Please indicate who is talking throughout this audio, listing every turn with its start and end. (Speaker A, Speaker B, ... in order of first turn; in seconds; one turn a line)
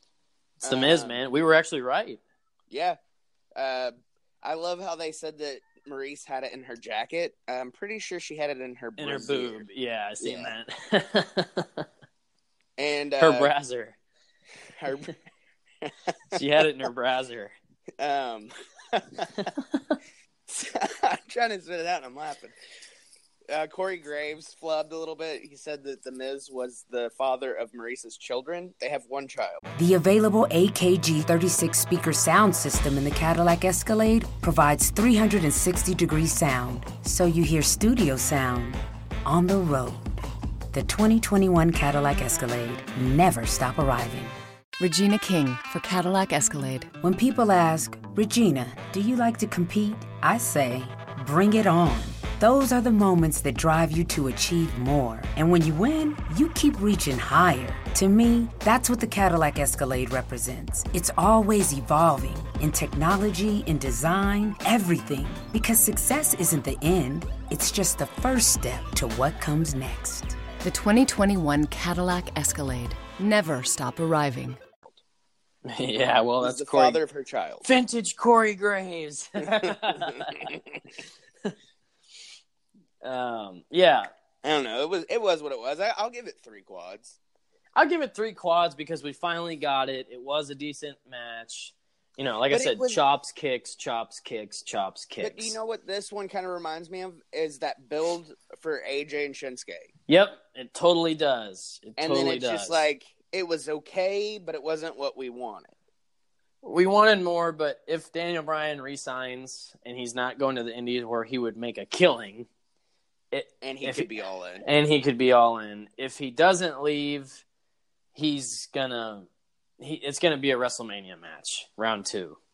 Speaker A: 0.6-2.2
Speaker B: 0.6-1.2
Speaker B: 2.7-3.0
Speaker B: 3.5-9.6
Speaker A: 9.0-11.9
Speaker B: 10.2-10.5
Speaker B: 12.8-13.5
Speaker A: 13.2-13.9
Speaker B: 14.8-15.1
Speaker B: 15.8-16.4
Speaker A: 16.3-17.5
Speaker B: 18.0-19.5
Speaker B: 20.5-22.6
Speaker B: 23.5-29.6
Speaker C: 29.8-40.1
Speaker C: 40.7-44.3
Speaker D: 44.8-46.9
Speaker C: 47.0-70.4
Speaker D: 70.6-74.6
Speaker A: 75.7-77.0
Speaker B: 76.4-77.6
Speaker A: 77.6-80.5
Speaker B: 79.6-80.5
Speaker A: 83.0-84.1
Speaker B: 84.4-87.2
Speaker A: 87.7-95.5
Speaker B: 92.5-93.0
Speaker B: 95.2-99.9
Speaker A: 100.1-102.9
Speaker B: 102.0-105.7
Speaker A: 106.6-112.5
Speaker A: 113.3-114.1
Speaker B: 113.6-114.6
Speaker A: 114.6-117.4
Speaker A: 118.1-119.3
Speaker A: 119.8-122.4